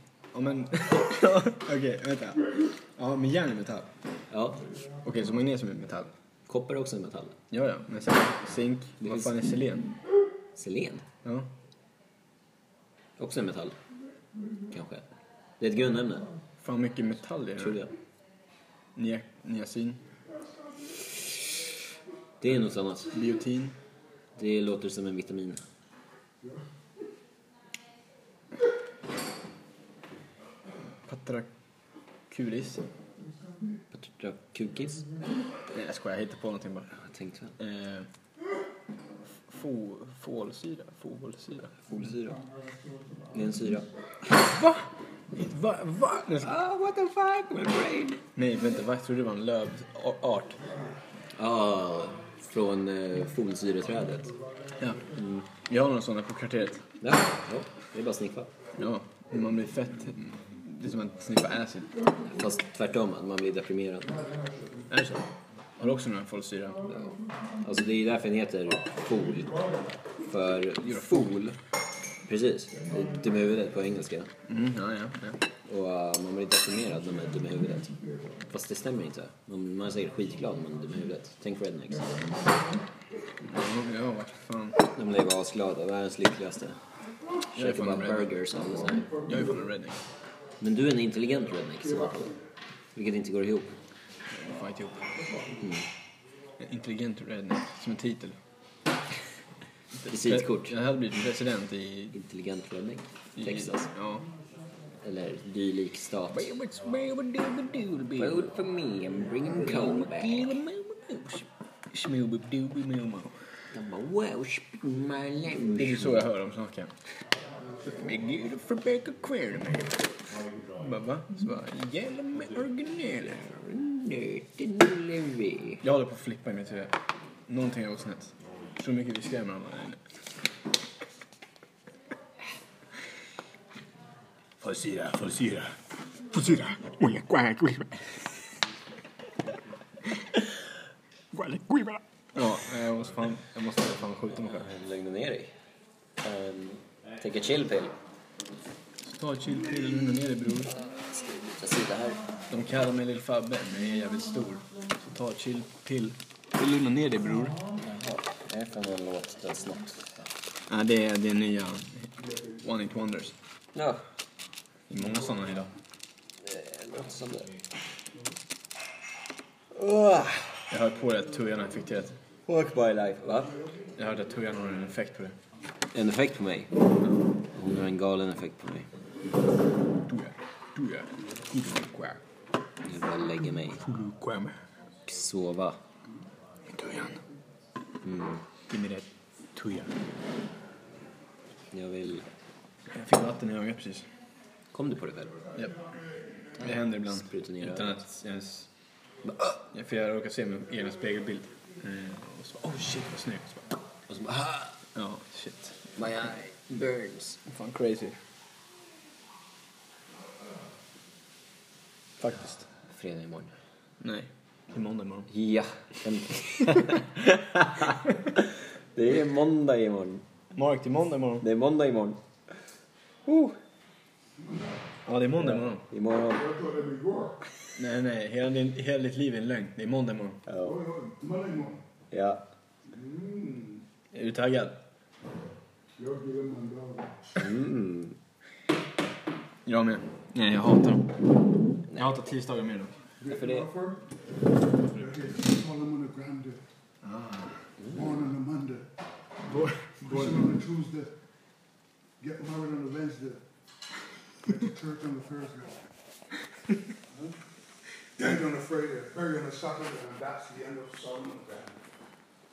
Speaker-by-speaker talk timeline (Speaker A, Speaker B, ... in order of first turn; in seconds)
Speaker A: 0.3-3.9, 5.0-6.1, 7.5-9.9, 11.2-11.5, 16.6-17.8, 18.9-20.0, 23.1-23.7, 31.1-31.5, 32.3-32.8, 35.7-37.0, 37.6-38.1, 39.5-41.7, 44.4-46.5, 48.3-50.6, 54.8-56.9, 58.8-61.9, 64.9-65.2, 65.8-66.9, 70.8-71.4, 74.5-75.4, 83.4-84.8, 87.5-88.3, 89.2-90.0, 94.3-95.2, 96.6-98.4, 100.0-102.1, 103.3-104.2, 106.3-108.5, 109.5-113.5, 115.7-116.9, 117.8-120.1, 120.8-123.4, 125.8-126.9, 127.5-130.0, 134.6-138.3, 141.3-144.7, 149.0-150.7, 152.5-157.6, 160.7-163.3, 164.9-165.7, 170.7-172.2, 173.9-175.4, 180.0-182.2, 183.8-184.6, 186.7-187.2, 188.7-189.9, 192.9-194.1, 196.6-198.7, 199.7-203.8, 204.9-205.9, 207.4-208.2, 212.2-212.6, 214.0-215.3, 216.7-216.9, 220.5-221.4, 225.1-225.8, 227.8-230.4, 234.1-234.8, 239.6-241.2, 241.9-242.9, 247.0-247.5, 249.4-250.5
Speaker B: 4.3-4.6, 6.5-7.4, 9.0-9.3, 10.5-11.0, 13.2-13.8, 14.7-15.0, 15.6-16.3, 17.6-17.9, 22.4-23.1, 24.4-25.6, 33.9-35.1, 37.0-37.5, 41.9-42.4, 43.3-43.9, 46.4-48.2, 51.4-54.3, 55.1-55.5, 57.0-58.5, 62.3-64.2, 66.9-69.6, 70.2-71.6, 72.2-74.3, 75.7-77.9, 78.5-82.6, 84.9-86.8, 87.5-89.2, 90.6-92.3, 92.9-93.7, 95.6-95.9, 100.1-100.7, 102.1-103.9, 105.0-106.5, 108.2-110.6, 113.7-116.3, 123.2-125.8, 144.4-145.5, 146.2-147.9, 151.1-152.2, 157.8-160.1, 163.7-164.0, 166.4-167.5, 169.7-170.7, 172.4-173.6, 175.9-176.7, 177.5-178.9, 182.8-183.8, 185.1-185.8, 188.0-188.4, 191.7-192.2, 194.7-195.4, 196.6-198.0, 199.2-199.6, 204.1-204.8, 205.9-207.4, 212.8-213.5, 215.3-218.0, 218.9-220.2, 221.4-222.2, 223.2-223.6, 225.9-226.5, 230.5-230.8, 232.1-232.4, 237.3-238.2, 243.2-243.7, 247.8-248.2
Speaker C: 226.5-227.4, 230.6-231.8, 232.9-233.8, 236.0-237.1, 243.3-244.0, 244.9-246.6, 247.9-248.9, 250.1-251.1, 252.2-253.4, 254.5-255.7, 258.2-261.8